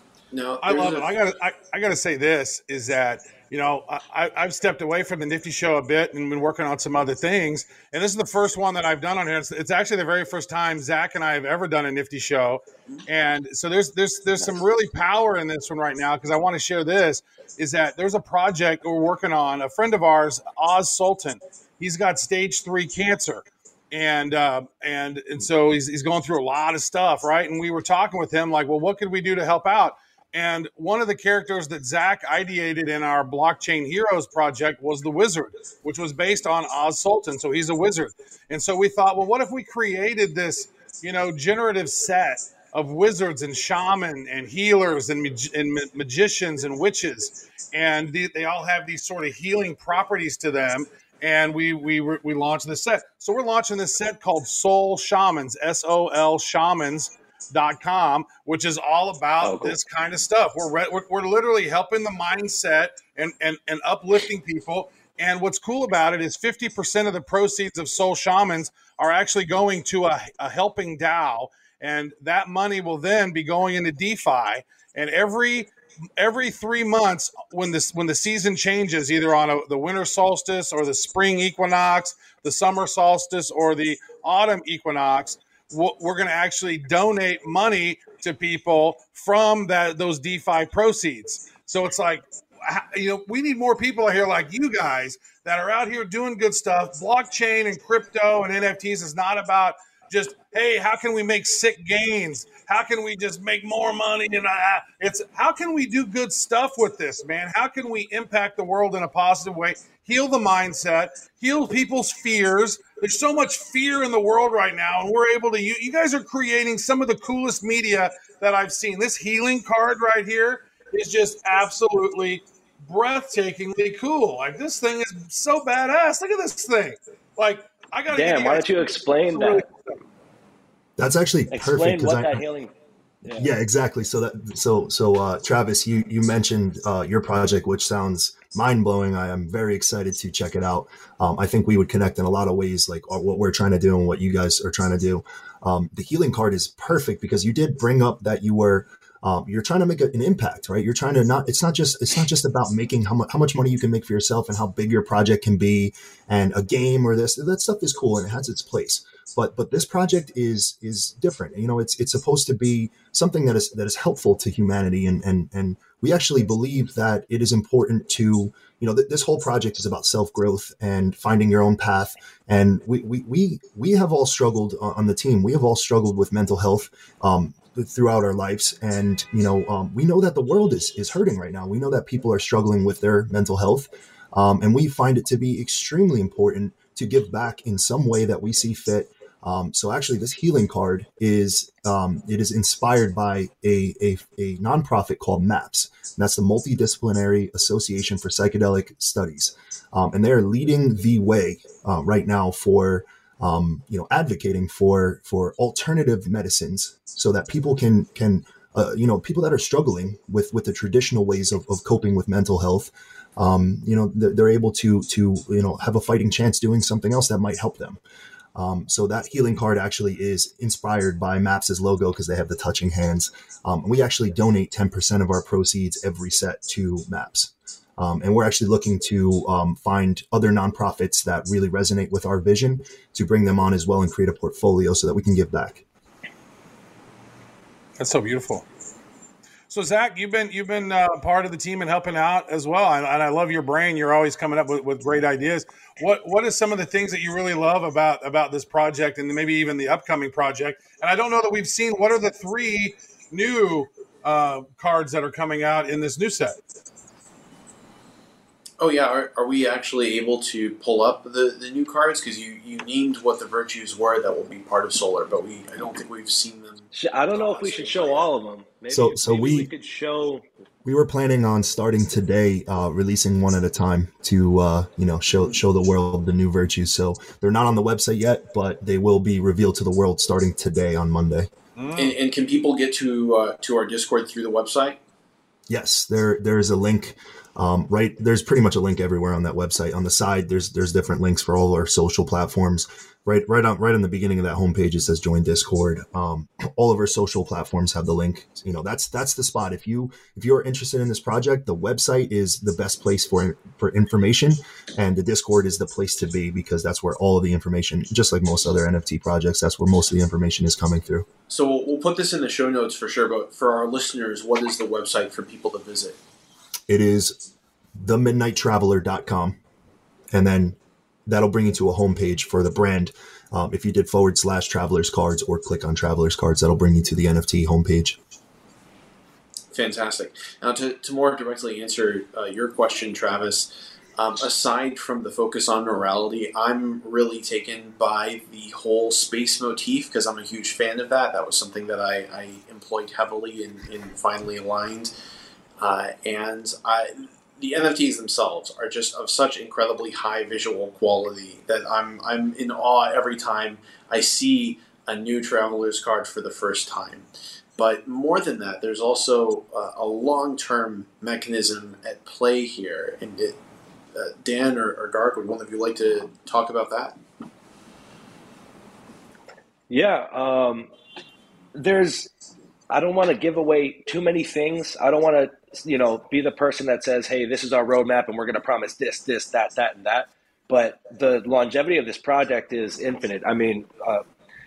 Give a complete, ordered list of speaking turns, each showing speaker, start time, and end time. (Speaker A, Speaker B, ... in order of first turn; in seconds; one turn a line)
Speaker A: 0.3-1.1
Speaker B: 0.6-130.0
Speaker C: 59.4-59.8
Speaker C: 128.1-129.7
Speaker D: 131.0-132.4
Speaker C: 131.5-132.7
Speaker C: 133.2-133.5
Speaker D: 133.3-218.0
Speaker D: 218.6-235.8
Speaker B: 238.0-238.7
Speaker B: 239.7-256.6
Speaker A: 258.8-268.3
Speaker C: 266.9-270.4
Speaker D: 268.9-269.7
Speaker D: 270.9-281.5
Speaker B: 281.8-282.2
Speaker A: 282.0-285.0
Speaker D: 285.7-311.3
Speaker A: 311.5-316.2
Speaker D: 316.9-317.4
Speaker D: 318.0-319.6
Speaker D: 320.3-328.2
Speaker A: 329.7-345.1
Speaker A: 345.8-363.6
Speaker A: 364.1-367.2
Speaker C: 369.9-370.9
Speaker C: 371.8-372.3
Speaker C: 372.9-384.2